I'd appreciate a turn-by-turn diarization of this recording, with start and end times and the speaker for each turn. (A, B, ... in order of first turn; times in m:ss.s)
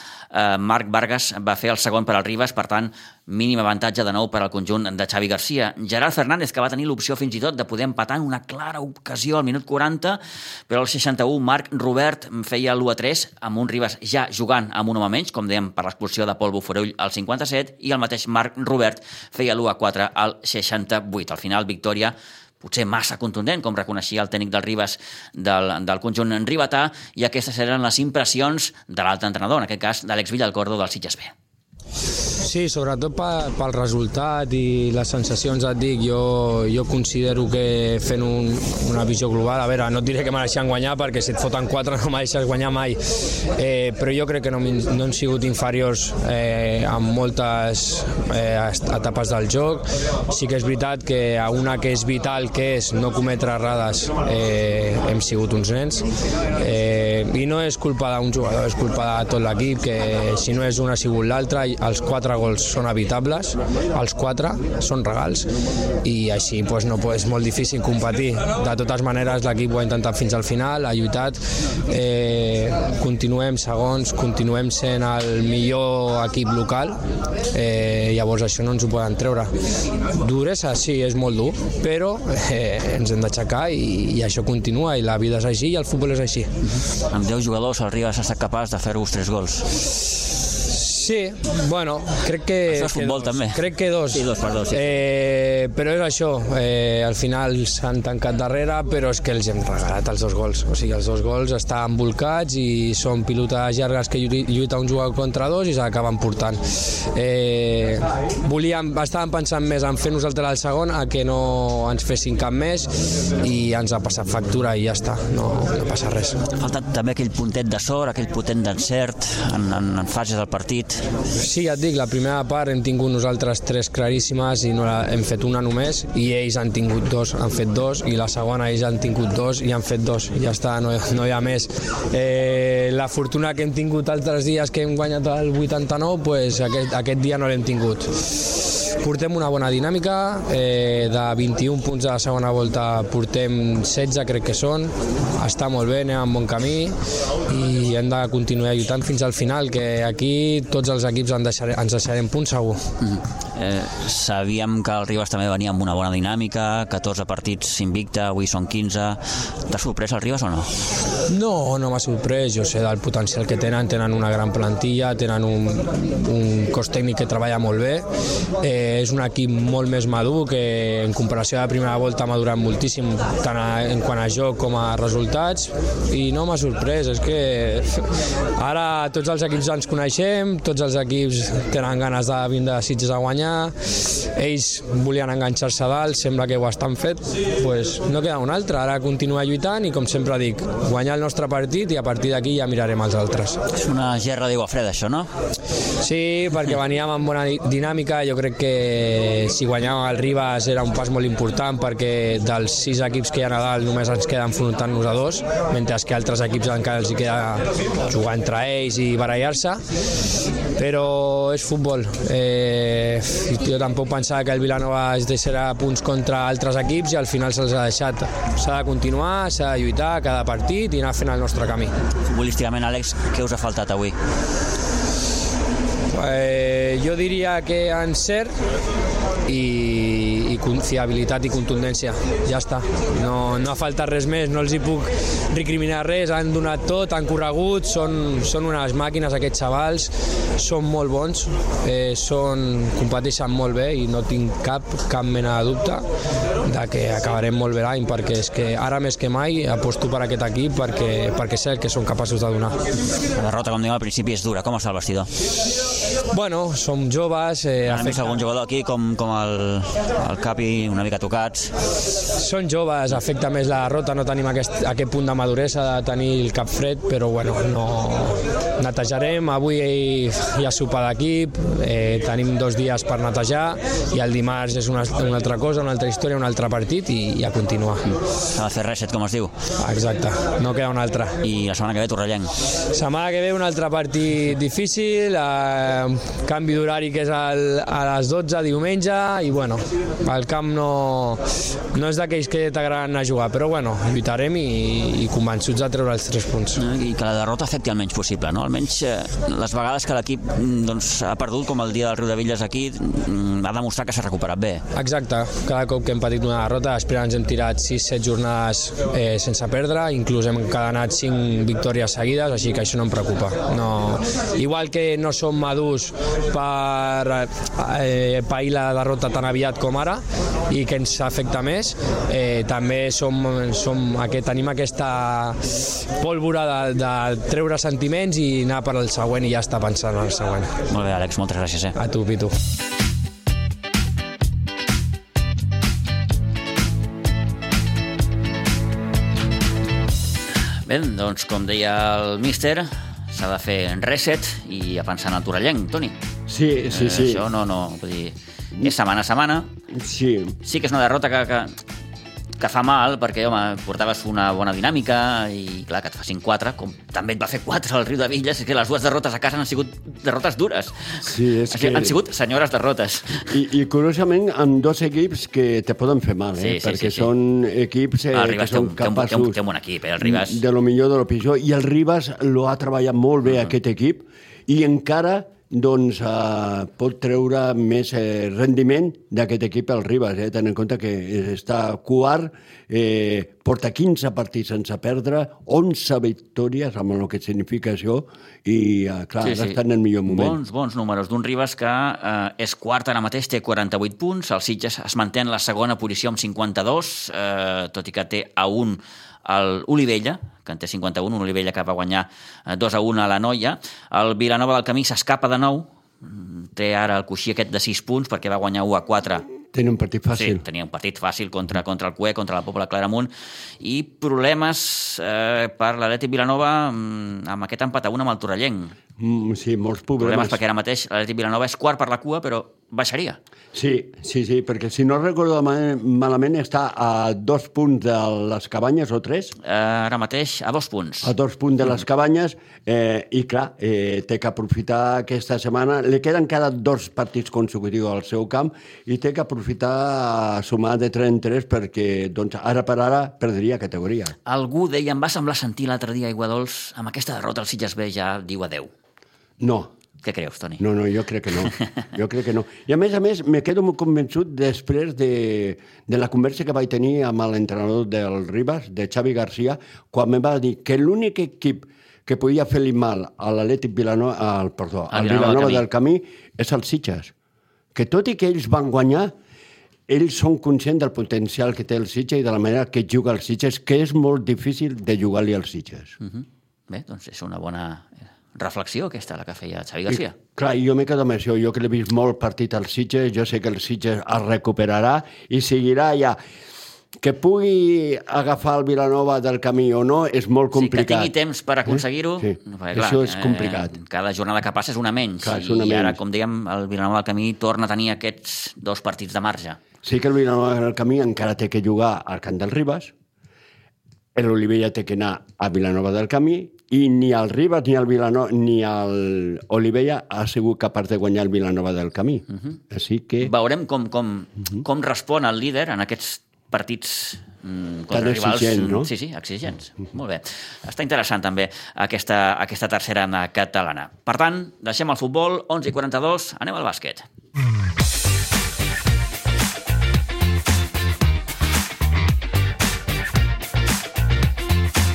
0:00.3-0:31.3 A
0:32.4-0:43.0 B
0:43.6-0:56.0 B
0:56.6-1:05.5 B
1:06.0-1:11.4 B
1:11.9-1:17.0 B
1:17.5-1:19.5 B
1:20.2-1:26.5 B
1:26.7-1:29.7 A
1:30.7-1:46.6 B
1:32.7-1:34.9 A
1:47.1-1:52.9 B
1:53.4-1:56.4 B
1:56.6-2:01.0 A
2:01.4-2:26.9 B
2:27.5-2:32.8 B
2:33.0-2:40.7 A
2:41.3-2:48.0 B
2:48.6-3:03.7 B
3:04.3-3:13.6 B
3:13.7-3:15.3 A
3:16.0-3:29.8 B
3:30.8-3:41.9 B
3:42.2-3:44.2 A
3:46.2-3:48.5 B
3:49.4-4:06.0 B
4:06.7-4:12.8 B
4:13.3-4:15.3 A
4:16.3-4:18.2 B
4:17.8-4:21.7 A
4:22.4-4:38.0 B
4:38.5-4:39.5 A
4:39.8-4:41.4 B
4:41.4-4:42.5 A
4:42.9-4:51.4 B
4:51.9-4:56.8 B
4:56.7-5:04.8 A
5:04.9-5:25.6 B
5:26.2-5:30.7 B
5:30.9-5:32.0 A
5:32.0-5:32.5 B
5:40.8-5:46.2 A
5:46.5-5:47.4 C
5:46.9-5:49.7 A
5:49.9-5:50.6 C
5:50.6-5:51.8 A
5:52.6-6:03.5 A
6:01.2-6:02.2 C
6:03.5-6:09.6 C
6:06.6-6:07.3 A
6:08.3-6:10.6 A
6:10.2-6:30.6 C
6:13.5-6:13.7 A
6:29.4-6:49.4 A
6:49.7-6:50.6 C
6:50.3-6:58.9 A
6:59.2-7:00.6 C
7:00.2-7:03.4 A
7:03.7-7:09.5 C
7:09.6-7:11.3 A
7:11.2-7:24.3 C
7:24.4-7:28.9 A
7:29.6-7:29.9 C
7:30.2-7:30.8 A
7:30.8-7:47.3 C
7:45.1-7:45.8 A
7:47.9-7:49.3 C
7:50.1-7:56.2 C
7:56.2-8:00.4 A
8:00.1-8:06.4 C
8:07.2-8:11.3 C
8:10.7-8:19.8 A
8:11.8-8:13.9 C
8:15.4-8:16.2 C
8:20.0-8:23.1 C
8:24.3-8:33.5 C
8:32.5-8:32.8 A
8:33.4-8:47.2 A
8:38.1-8:39.1 C